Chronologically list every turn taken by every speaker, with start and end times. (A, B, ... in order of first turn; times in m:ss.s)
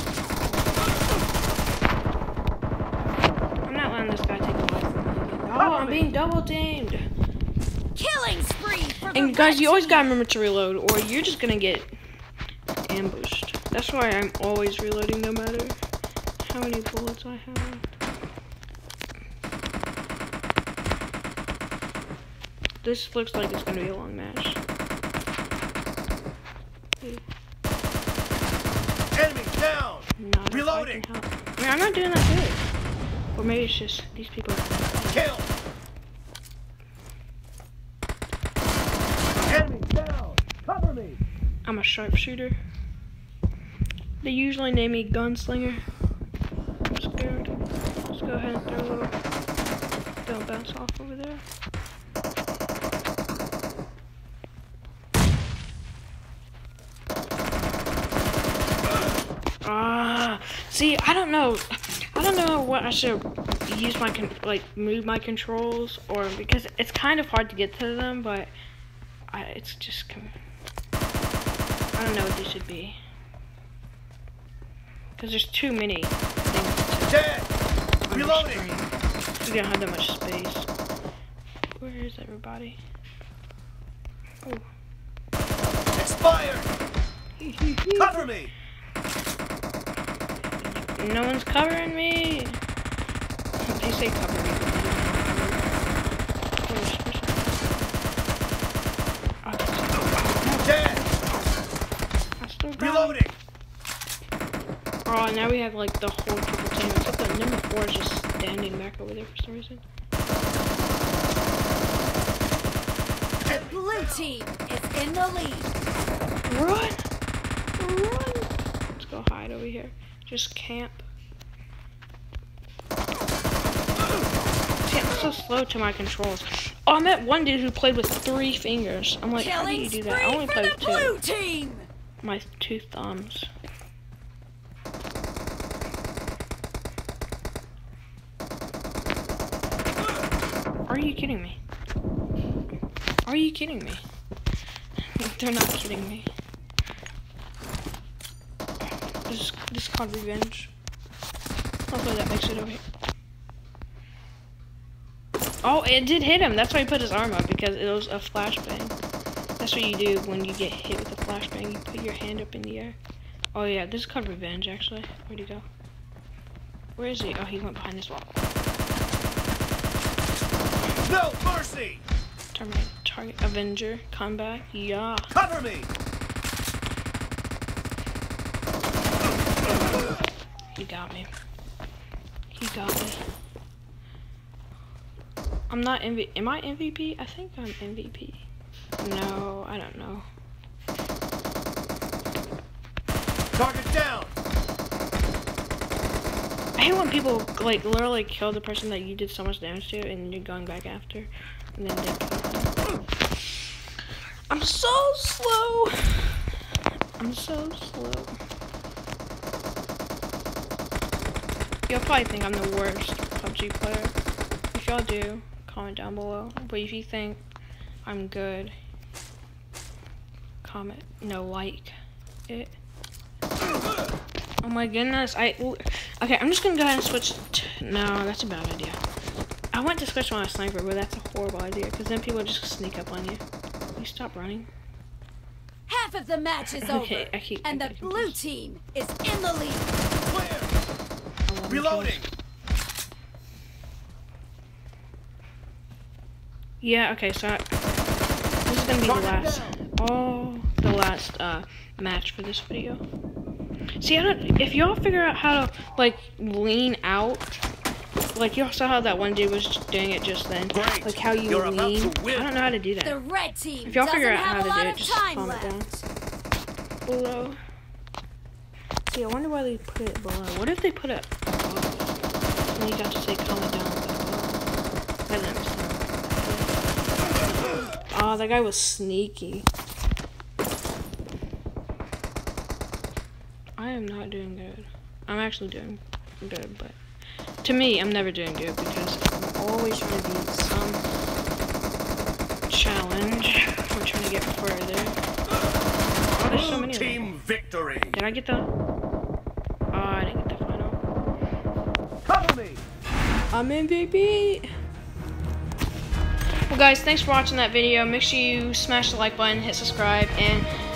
0:00.4-0:00.9 A
0:03.6-0:07.0 A
0:05.6-0:06.1 B
0:08.0-0:10.1 C
0:09.1-0:11.9 A
0:12.9-0:15.8 A
0:16.4-0:17.8 A
0:22.8-0:24.6 A
0:29.1-0:31.1 B
0:30.2-0:32.6 A
0:33.4-0:35.3 A
0:35.1-0:35.5 B
0:39.5-0:41.2 B
0:41.6-0:42.6 A
0:44.2-0:45.8 A
0:46.9-0:47.5 A
0:48.1-0:49.1 A
0:50.2-0:51.4 A
0:59.6-1:08.5 A
1:09.3-1:10.3 A
1:12.0-1:13.0 A
1:15.2-1:17.2 A
1:17.1-1:17.5 B
1:18.1-1:18.9 A
1:18.1-1:18.7 B
1:19.4-1:20.7 A
1:21.8-1:22.8 A
1:26.0-1:26.7 B
1:27.4-1:28.3 A
1:28.0-1:28.5 B
1:30.6-1:32.6 A
1:33.7-1:35.8 A
1:36.6-1:37.9 A
1:39.4-1:41.5 A
1:40.6-1:41.1 B
1:42.4-1:43.2 A
1:42.8-1:43.4 B
1:45.0-1:49.8 A
1:53.4-1:55.7 C
1:53.5-1:54.3 B
1:56.5-1:57.0 A
1:57.8-2:01.0 A
2:04.8-2:11.2 A
2:09.4-2:11.9 C
2:12.2-2:13.5 A
2:20.9-2:21.6 A
2:23.2-2:24.0 A
2:25.2-2:26.3 A
2:29.3-2:30.7 A
2:31.9-2:32.8 A
2:35.6-2:39.0 A
2:39.6-2:43.0 A
2:43.5-2:45.6 A
2:47.0-2:48.4 A
2:51.0-2:52.0 B
2:52.5-2:55.3 A
2:55.3-2:55.9 B
3:00.8-3:01.3 A
3:02.5-3:03.2 A
3:05.7-3:08.4 A
3:09.0-3:10.3 A
3:13.6-3:14.3 B
3:16.8-3:22.7 A
3:24.5-3:26.4 A
3:27.2-3:28.4 A
3:31.9-3:34.2 A
3:34.7-3:37.4 A
3:38.0-3:38.7 A
3:40.6-3:41.9 A
3:42.5-3:42.8 A
3:44.6-3:49.0 A
3:49.7-3:53.4 A
3:54.0-3:54.7 A
3:55.9-3:59.9 C
3:56.8-3:58.4 A
4:00.2-4:00.8 B
4:01.5-4:02.3 A
4:01.7-4:02.3 B
4:06.8-4:07.7 A
4:08.7-4:13.0 A
4:09.0-4:09.8 B
4:14.0-4:17.6 A
4:18.4-4:23.2 A
4:20.7-4:22.5 B
4:23.0-4:26.0 C
4:23.8-4:25.9 A
4:27.1-4:27.6 A
4:29.1-4:32.1 A
4:32.8-4:34.7 A
4:35.3-4:36.8 A
4:38.1-4:39.7 A
4:43.8-4:47.0 A
4:47.6-4:51.0 A
4:52.7-4:55.2 A
4:56.3-4:57.4 A
4:56.5-4:58.2 B
4:58.1-4:58.7 A
4:59.9-5:01.0 A
5:02.3-5:02.8 B
5:03.5-5:04.7 A
5:06.7-5:10.7 A